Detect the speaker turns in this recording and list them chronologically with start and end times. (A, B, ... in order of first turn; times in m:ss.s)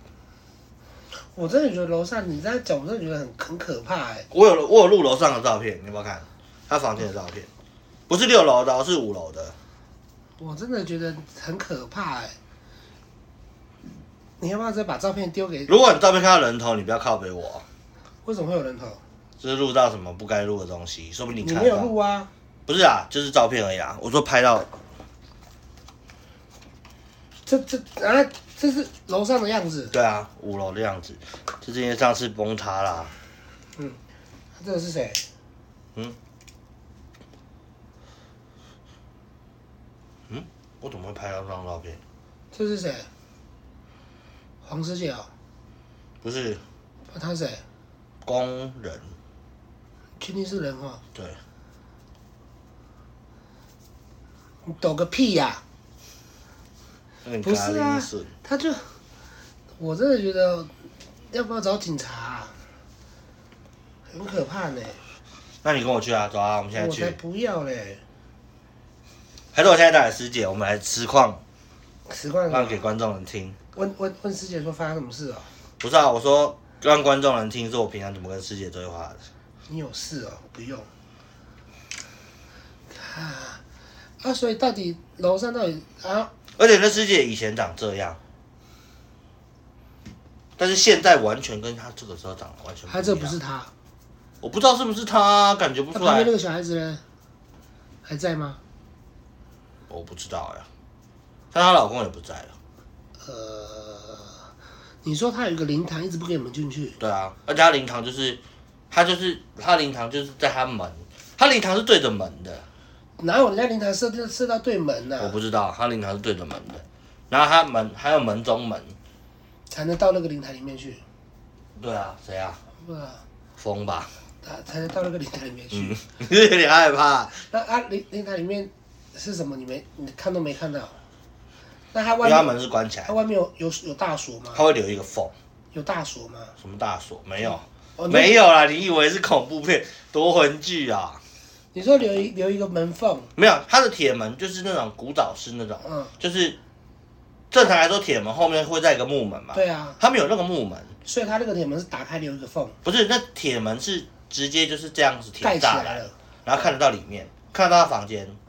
0:01.2-0:04.3 A
0:04.3-0:07.5 B
0:08.1-0:09.6 B
0:10.4-0:12.4 A
0:14.4-0:15.7 A
0:15.7-0:17.6 B
0:18.2-0:19.0 A
0:19.4-0:21.9 B
0:21.4-0:22.3 A
0:22.7-0:24.7 B
0:27.5-0:29.9 A
0:29.9-0:33.1 B
0:34.6-0:35.2 A
0:40.3-0:42.0 B
0:42.5-0:43.1 A
0:44.6-0:45.3 A
0:46.2-0:46.6 B
0:47.1-0:47.6 A
0:48.2-0:49.2 B
0:50.2-0:51.0 A
0:54.6-0:55.6 A
0:57.2-0:58.3 B
0:57.4-0:59.0 A
0:59.8-1:00.7 A
1:01.3-1:02.6 A
1:04.1-1:05.0 A
1:05.6-1:07.2 B
1:06.8-1:08.0 A
1:09.5-1:11.4 B
1:12.1-1:12.8 A
1:12.5-1:13.6 B
1:13.7-1:15.5 A
1:15.8-1:19.3 B
1:19.7-1:20.9 A
1:22.9-1:23.6 A
1:24.2-1:26.3 A
1:26.6-1:28.2 B
1:30.6-1:33.4 B
1:32.9-1:33.7 A
1:34.4-1:36.3 B
1:35.9-1:37.0 A
1:38.0-1:38.6 A
1:39.9-1:40.7 B
1:41.5-1:42.5 B
1:43.2-1:44.5 A
1:45.0-1:47.0 A
1:47.0-1:52.6 B
1:53.2-1:55.4 A
1:55.2-1:59.0 B
1:59.7-2:01.0 A
2:01.8-2:02.6 B
2:02.8-2:03.2 A
2:03.6-2:04.1 B
2:04.4-2:06.0 A
2:05.7-2:07.4 B
2:07.3-2:11.0 A
2:11.9-2:12.5 A
2:12.2-2:13.2 B
2:13.1-2:14.6 A
2:14.5-2:15.3 B
2:15.7-2:16.6 A
2:16.6-2:21.2 B
2:18.0-2:18.4 A
2:21.7-2:23.3 A
2:23.4-2:26.6 B
2:25.8-2:26.1 A
2:27.5-2:31.0 B
2:29.5-2:30.0 A
2:31.0-2:32.8 A
2:32.8-2:38.4 B
2:35.4-2:36.1 A